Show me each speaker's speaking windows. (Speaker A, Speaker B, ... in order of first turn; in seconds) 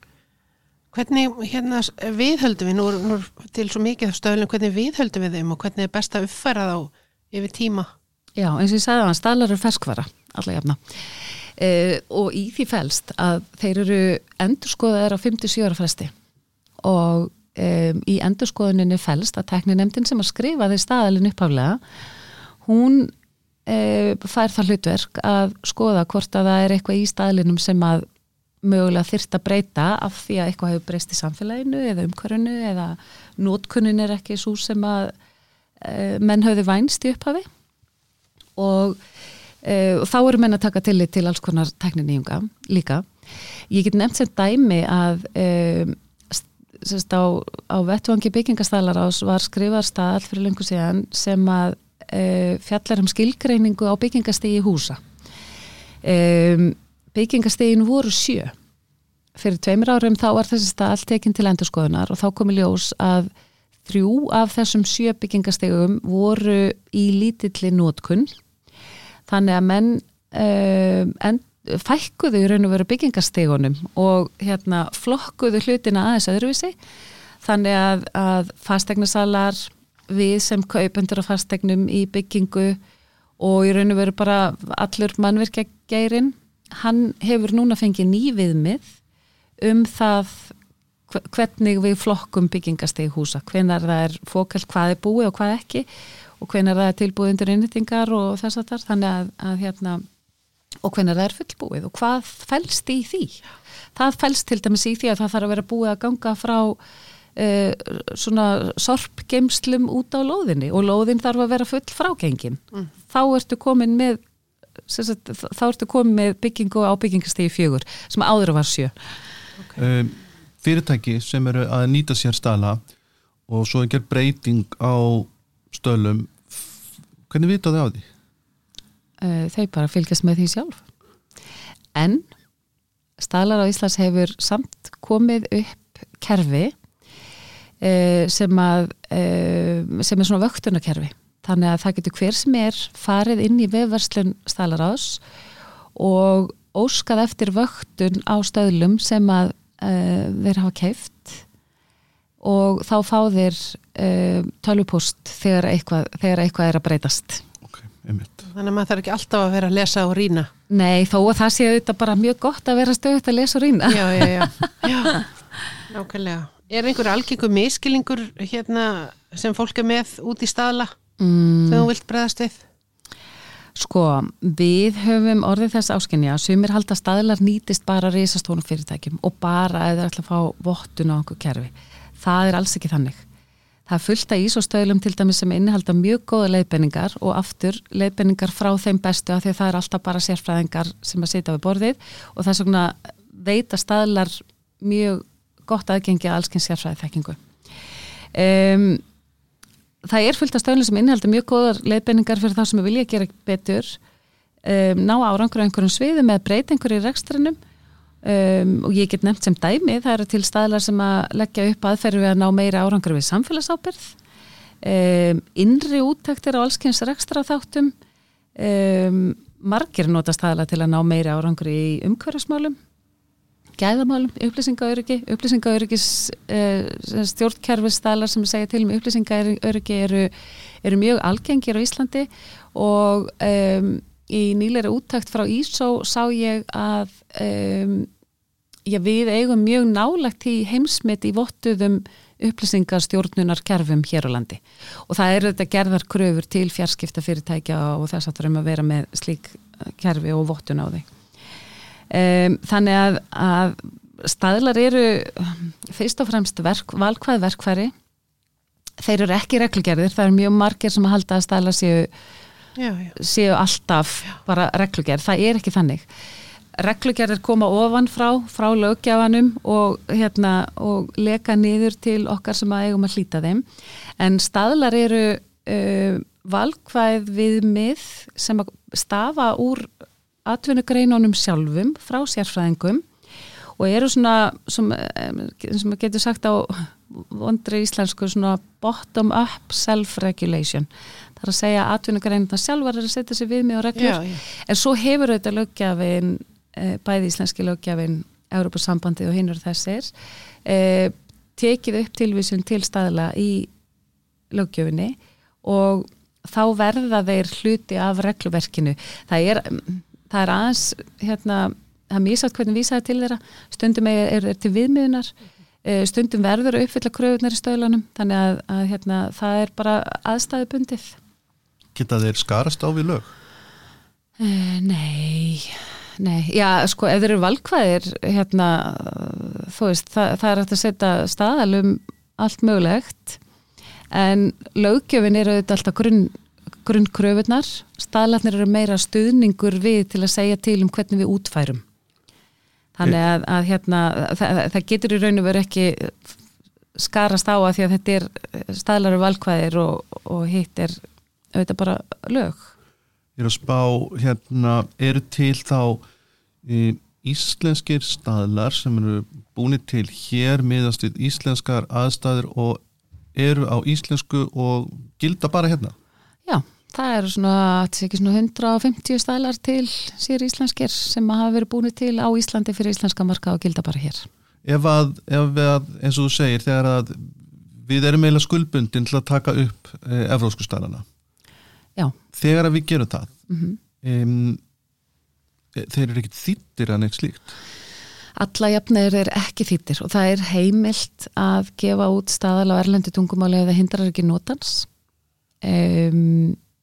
Speaker A: 0.9-7.9, 158.5-160.5, 163.9-165.2, 165.9-170.9, 171.7-172.6, 262.8-263.1, 293.9-294.4
Speaker B: 8.4-16.1, 16.8-21.8, 22.6-23.1, 23.7-28.1, 28.6-35.1, 35.8-37.5, 38.6-39.0, 39.6-43.0, 43.7-55.0, 56.0-58.5, 59.4-63.3, 63.9-68.3, 69.3-76.7, 77.4-82.8, 83.4-88.9, 89.6-90.5, 91.1-95.9, 96.4-100.0, 100.8-103.4, 103.9-106.8, 107.4-114.2, 114.9-118.9, 129.2-130.8, 131.9-132.3, 133.2-136.7, 137.8-145.2, 145.9-151.4, 152.4-157.4, 160.7-165.2, 171.2-171.9, 173.8-183.2, 183.9-197.4, 198.3-199.0, 200.0-204.0, 204.6-207.6, 208.2-214.1, 214.8-217.9, 218.6-222.8, 223.8-238.1, 238.9-251.1, 252.1-257.9, 259.0-262.1, 263.2-266.1, 266.8-273.6, 274.2-279.9, 280.4-283.0, 283.8-300.1, 300.6-303.7, 304.5-315.3, 315.8-321.2, 324.4-333.4, 334.1-341.8, 343.0-346.3, 346.9-351.0, 351.5-352.7, 366.4-374.3, 383.5-383.8, 388.4-394.9, 395.6-396.6
Speaker C: 119.8-122.8, 123.5-126.8, 127.3-128.1, 157.6-158.5, 321.9-323.3, 353.4-356.0, 356.6-362.8, 363.3-365.9, 374.6-381.1, 382.3-383.4, 384.0-384.6, 385.7-387.6